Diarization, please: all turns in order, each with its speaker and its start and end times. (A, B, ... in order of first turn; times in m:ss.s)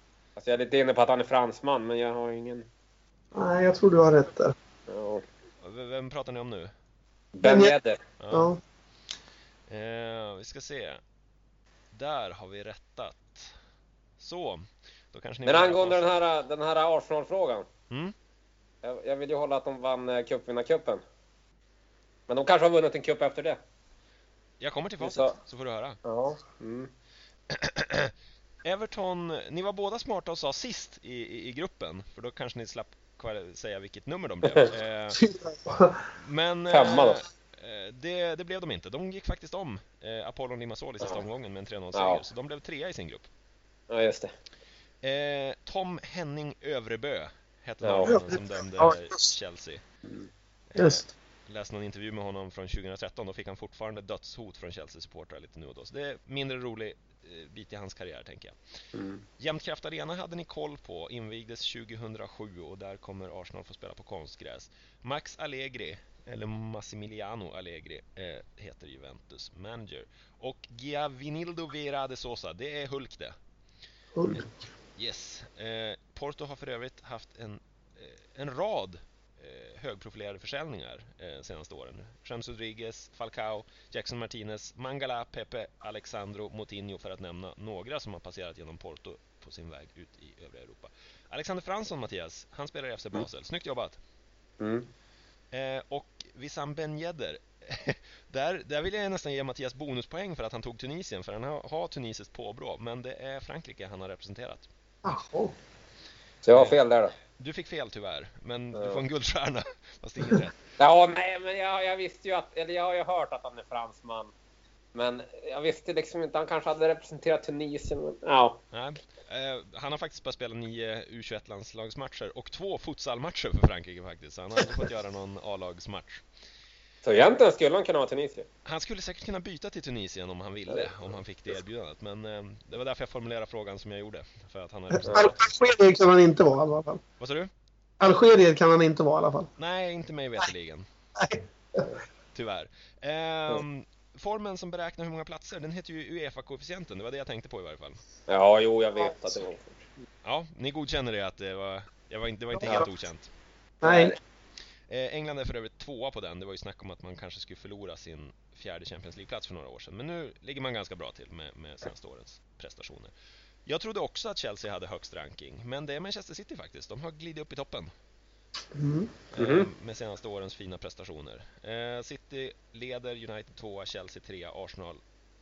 0:00.4-0:02.7 A
0:03.3-0:04.5 B
0:04.9-0:05.2 A
0:05.6-0:06.7 C
0:07.3-0:08.0 A
0:07.4-0:07.7 B
0:08.2-0:08.5 C
0:08.3-0:08.6 B
0:09.7-0:11.0 C
0:11.9-0:13.5 C
0:14.2-0:16.2 C
0:15.4-0:17.6 A
0:18.8-0:21.0 A
0:22.3-0:23.6 A
0:24.6-0:26.0 C
0:25.0-0:25.3 A
0:26.0-0:26.9 A
0:27.5-0:28.1 C
0:28.6-0:35.2 C
0:35.1-0:36.0 B
0:36.2-0:43.3 C
0:36.7-0:37.2 A
0:41.9-0:42.2 A
0:43.9-0:44.3 A
0:45.0-0:49.8 C
0:47.8-0:48.2 A
0:48.0-0:49.3 B
0:50.7-0:58.6 C
0:50.8-0:51.0 B
0:58.9-0:59.2 A
0:59.4-1:13.3 C
1:14.2-1:14.4 B
1:15.0-1:34.0 C
1:34.6-1:34.9 A
1:35.5-1:44.7 C
1:45.0-1:45.5 B
1:46.4-1:47.1 A
1:46.5-1:46.8 C
1:47.4-1:50.6 C
1:48.7-1:49.0 A
1:50.8-1:54.3 A
1:54.9-1:58.6 A
1:58.7-2:06.2 C
2:07.0-2:08.5 A
2:08.6-2:15.4 C
2:10.7-2:11.1 A
2:14.9-2:17.0 B
2:15.0-2:15.3 A
2:17.2-2:17.5 C
2:18.0-2:19.5 B
2:19.6-2:20.8 C
2:21.2-2:21.9 B
2:22.3-2:28.0 C
2:28.3-2:29.9 A
2:30.2-2:33.3 C
2:32.5-2:32.9 B
2:33.8-2:34.1 B
2:33.8-2:34.2 A
2:34.9-2:43.1 C
2:43.7-2:47.9 C
2:48.7-2:49.1 B
2:49.3-2:55.0 C
2:49.4-2:49.7 A